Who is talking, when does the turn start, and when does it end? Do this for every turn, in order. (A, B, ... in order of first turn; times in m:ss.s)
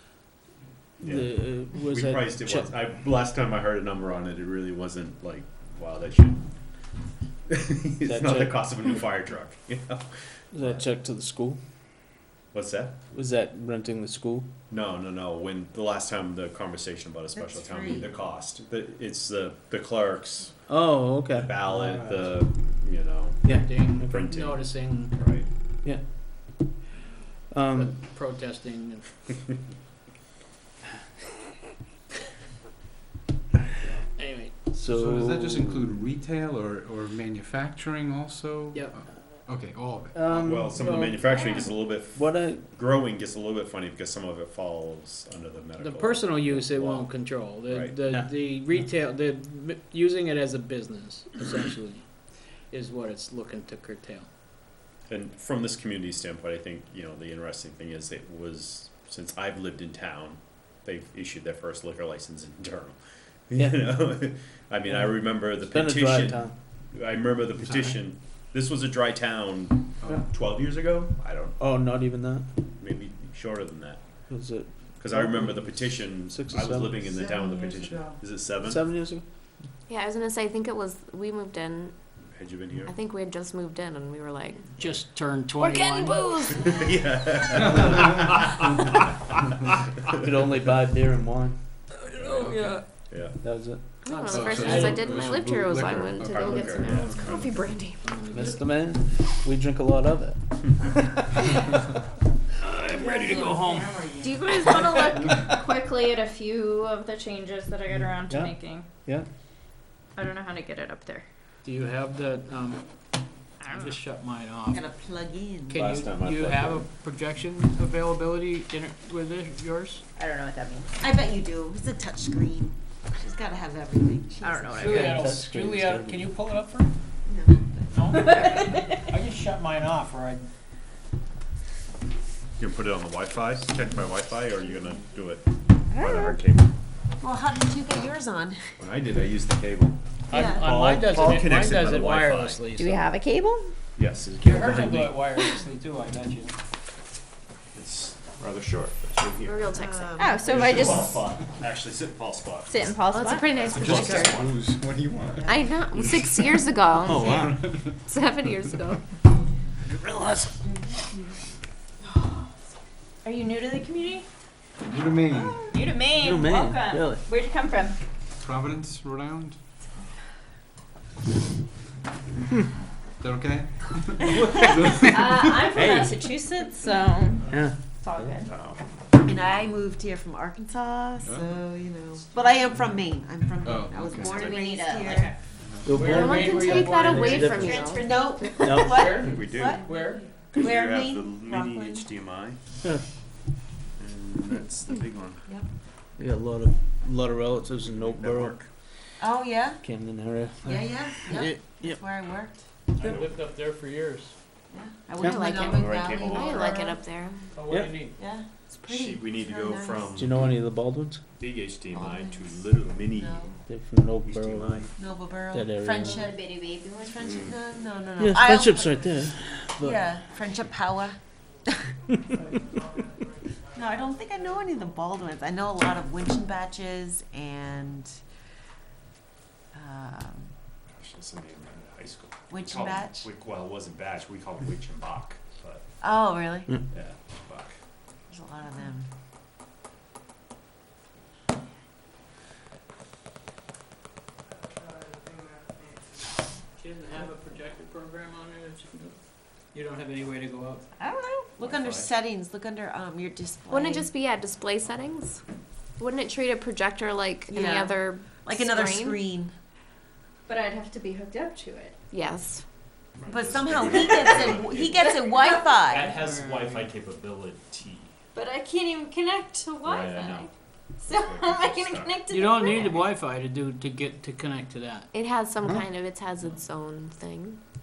0:01.0-0:06.4 A
0:01.0-0:02.7 B
0:07.5-0:10.8 A
0:08.0-0:08.7 B
0:10.5-0:11.6 B
0:12.5-0:13.0 A
0:13.1-0:14.5 B
0:14.7-0:20.6 A
0:17.4-0:18.1 C
0:20.7-0:22.0 B
0:21.3-0:25.5 A
0:23.4-0:23.7 B
0:23.4-0:25.1 D
0:25.8-0:26.5 B
0:27.5-0:27.9 B
0:27.8-0:29.4 D
0:34.2-0:34.5 D
0:34.7-0:36.0 B
0:34.9-0:40.2 E
0:38.7-0:39.0 D
0:40.1-0:41.0 B
0:40.4-0:48.0 A
0:40.8-0:41.6 F
0:42.0-0:42.7 B
0:45.8-0:54.3 D
0:55.1-1:03.0 A
1:03.5-1:11.6 A
1:03.6-1:03.9 B
1:04.9-1:06.5 B
1:07.6-1:07.9 E
1:11.6-1:12.5 B
1:12.8-1:14.0 A
1:14.3-1:17.0 B
1:15.0-1:18.8 A
1:17.2-1:18.2 C
1:18.6-1:19.2 B
1:19.9-1:22.0 G
1:22.3-1:22.9 A
1:22.8-1:24.7 G
1:24.8-1:26.6 D
1:25.6-1:27.1 G
1:26.7-1:29.3 A
1:30.2-1:31.6 B
1:32.2-1:32.8 D
1:32.2-1:33.4 A
1:33.4-1:33.8 B
1:34.0-1:38.1 G
1:34.1-1:35.0 D
1:34.3-1:37.6 E
1:36.2-1:37.2 A
1:38.0-1:38.7 D
1:38.3-1:41.0 B
1:42.6-1:44.0 D
1:43.0-1:44.9 C
1:43.2-1:43.5 F
1:44.2-1:45.3 G
1:45.0-1:48.9 F
1:48.3-1:49.3 B
1:50.2-1:51.3 F
1:51.6-1:52.8 D
1:53.6-1:54.8 D
1:54.7-1:55.9 C
1:55.7-2:00.0 D
1:55.7-1:56.9 A
2:00.2-2:00.9 F
2:01.0-2:05.1 C
2:04.4-2:05.3 F
2:04.8-2:06.9 D
2:04.8-2:06.3 B
2:07.3-2:07.9 C
2:07.9-2:10.4 D
2:08.3-2:08.7 F
2:12.6-2:16.7 A
2:17.2-2:18.6 C
2:18.8-2:22.6 A
2:20.3-2:23.1 D
2:20.3-2:20.7 C
2:22.8-2:23.7 F
2:24.0-2:25.1 A
2:24.4-2:26.6 D
2:27.7-2:29.8 A
2:29.4-2:30.3 G
2:29.8-2:30.9 C
2:30.2-2:31.2 F
2:30.4-2:32.9 A
2:32.7-2:33.6 F
2:33.1-2:34.4 G
2:33.6-2:34.5 A
2:33.6-2:38.0 E
2:35.4-2:39.0 G
2:37.0-2:37.6 B
2:40.0-2:40.5 B
2:43.2-2:44.2 F
2:44.8-2:45.8 E
2:45.3-2:48.0 F
2:46.1-2:47.2 B
2:48.4-2:49.6 E
2:53.2-2:55.7 E
2:55.1-2:58.5 F
2:55.8-2:56.2 B
2:57.5-2:57.8 B
2:58.2-2:58.8 E
2:59.2-3:05.3 C
3:01.2-3:01.5 E
3:03.6-3:04.5 E
3:04.2-3:05.4 F
3:05.6-3:06.1 E
3:05.8-3:07.9 B
3:05.9-3:07.8 D
3:06.0-3:08.1 G
3:07.6-3:08.2 F
3:07.7-3:10.0 C
3:08.6-3:09.2 B
3:08.9-3:10.2 D
3:09.0-3:12.6 A
3:10.5-3:12.1 C
3:14.0-3:15.5 A
3:16.2-3:18.6 B
3:18.0-3:18.7 A
3:19.2-3:19.8 C
3:19.8-3:22.0 B
3:20.7-3:22.7 C
3:23.0-3:24.4 D
3:23.0-3:23.3 A
3:24.7-3:27.0 C
3:25.2-3:27.5 G
3:25.2-3:26.9 A
3:27.6-3:28.2 D
3:28.1-3:30.2 C
3:28.9-3:30.5 A
3:30.2-3:31.2 B
3:31.4-3:33.5 A
3:31.9-3:33.6 C
3:33.7-3:34.9 B
3:34.2-3:34.9 A
3:35.0-3:39.2 C
3:35.5-3:36.3 B
3:36.0-3:37.2 F
3:38.2-3:40.1 B
3:39.8-3:41.2 C
3:43.7-3:48.2 C
3:49.7-3:50.5 C
3:50.9-3:55.8 A
3:52.5-3:53.3 C
3:56.0-3:56.7 C
3:56.9-3:57.8 A
3:58.3-3:59.1 C
4:06.7-4:11.0 D
4:11.0-4:11.5 F
4:11.6-4:12.1 A
4:11.6-4:14.1 C
4:13.7-4:15.4 G
4:16.0-4:19.2 G
4:17.5-4:19.6 C
4:20.5-4:22.0 F
4:22.1-4:22.6 G
4:23.2-4:25.3 A
4:23.3-4:26.1 C
4:25.4-4:25.8 F
4:25.8-4:28.1 A
4:26.2-4:26.9 D
4:28.4-4:32.9 F
4:29.8-4:30.5 A
4:31.0-4:32.2 A
4:32.3-4:35.1 D
4:35.1-4:37.6 G